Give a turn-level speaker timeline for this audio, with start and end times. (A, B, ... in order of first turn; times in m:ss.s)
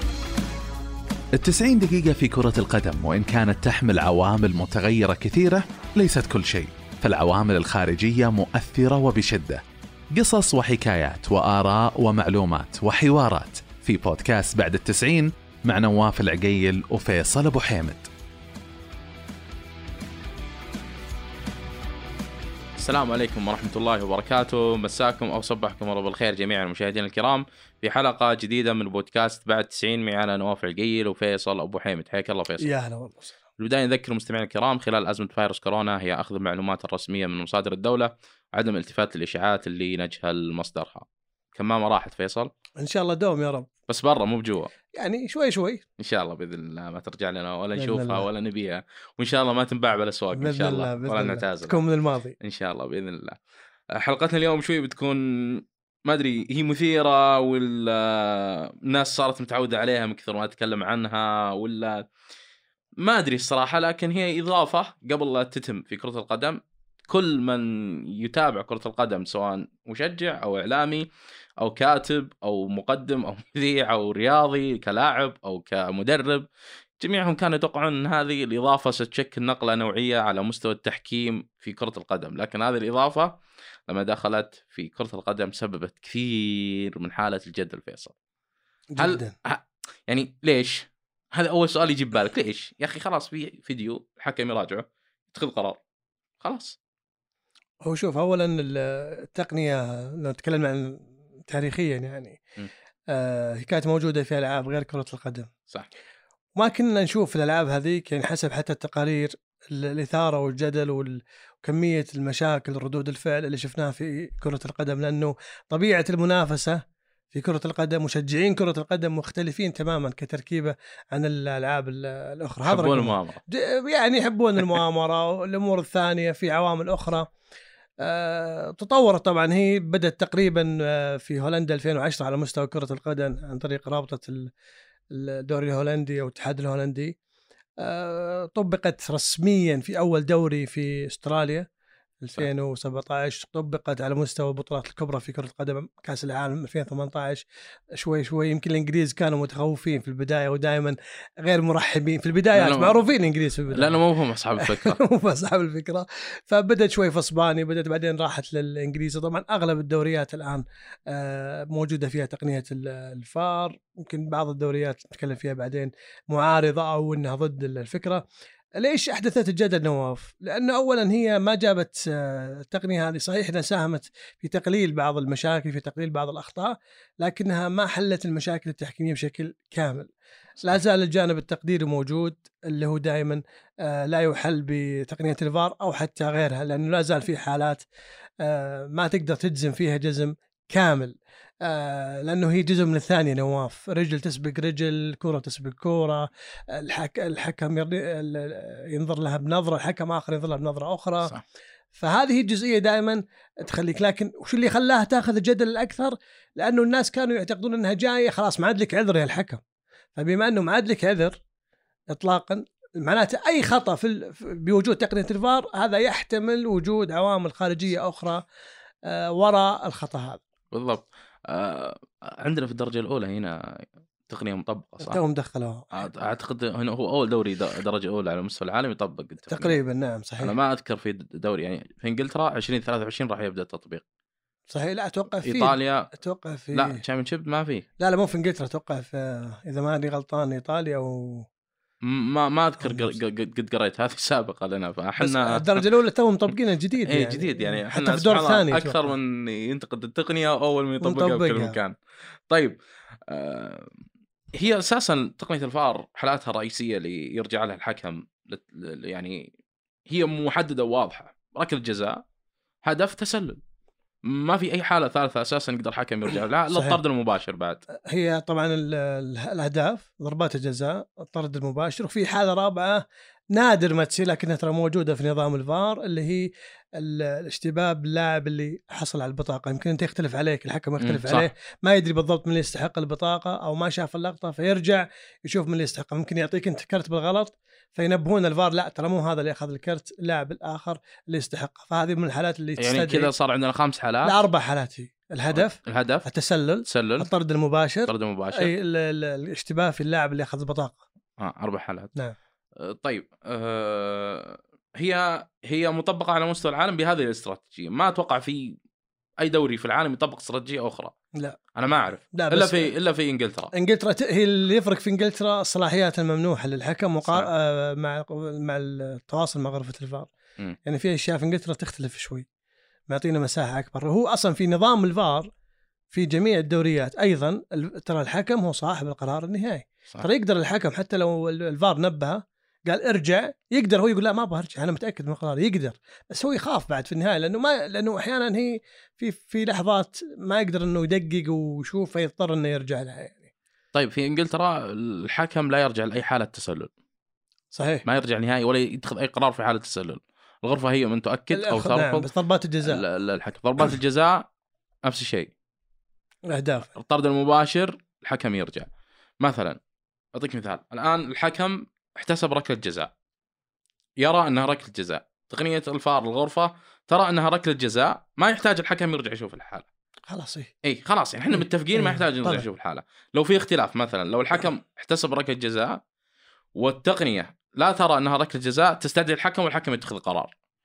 0:01.3-0:09.6 A
0:10.1-0:18.1 A
0:22.8-0:32.6 B
0:32.6-0:33.4 C
0:33.6-0:42.5 B
0:42.8-0:43.7 C
0:43.9-0:44.7 B
0:45.0-0:45.8 C
0:46.0-0:51.8 B
0:47.8-0:48.3 C
0:50.3-0:52.3 C
0:52.4-0:53.4 B
0:53.9-1:02.0 B
1:03.0-1:06.6 B
1:07.1-1:11.1 B
1:11.6-1:16.4 B
1:17.0-1:23.3 B
1:23.9-1:28.1 B
1:28.9-1:29.3 C
1:29.0-1:35.8 B
1:36.4-1:36.8 B
1:37.8-1:42.4 C
1:43.1-1:45.5 C
1:46.6-1:56.8 C
1:57.3-2:07.3 C
2:02.6-2:03.4 B
2:08.0-2:14.5 C
2:15.1-2:17.2 C
2:17.8-2:21.6 C
2:22.2-2:27.4 C
2:28.0-2:34.0 C
2:32.5-2:33.0 B
2:33.7-2:35.0 B
2:34.6-2:48.2 C
2:48.8-3:00.1 C
3:00.6-3:07.9 C
3:08.4-3:21.3 C
3:21.9-3:29.6 C
3:30.1-3:31.4 C
3:32.1-3:38.4 C
3:39.0-3:40.4 C
3:40.7-3:45.2 B
3:45.0-3:45.8 C
3:45.9-3:49.8 B
3:49.5-3:50.5 C
3:50.4-3:54.0 B
3:54.7-3:57.0 C
3:55.4-3:56.1 B
3:56.7-3:57.8 B
3:58.0-4:01.5 C
4:02.0-4:05.8 B
4:02.8-4:03.1 C
4:05.2-4:09.1 C
4:07.1-4:13.9 B
4:11.0-4:11.8 C
4:14.5-4:19.5 B
4:20.1-4:22.2 B
4:22.8-4:23.6 B
4:24.2-4:27.8 B
4:26.7-4:27.0 C
4:28.1-4:53.3 C
4:41.0-4:41.5 B
4:52.8-4:54.3 B
4:54.2-5:01.0 C
4:55.5-4:56.2 B
4:56.9-4:57.3 B
4:58.0-4:58.7 B
5:01.4-5:02.1 B
5:02.8-5:08.8 B
5:09.4-5:11.1 B
5:11.7-5:13.7 B
5:12.3-5:12.9 C
5:13.7-5:20.3 C
5:20.8-5:22.4 C
5:23.1-5:25.5 C
5:26.1-5:43.5 C
5:43.9-5:46.9 B
5:47.7-5:48.0 C
5:48.0-5:52.3 B
5:51.5-5:53.0 C
5:52.8-5:54.4 B
5:55.0-5:55.5 B
5:56.5-5:56.9 C
5:57.0-5:58.9 B
5:59.4-5:59.8 B
6:00.3-6:03.1 B
6:04.2-6:09.8 B
6:10.3-6:10.7 C
6:10.8-6:16.0 B
6:11.5-6:12.6 C
6:16.7-6:20.5 B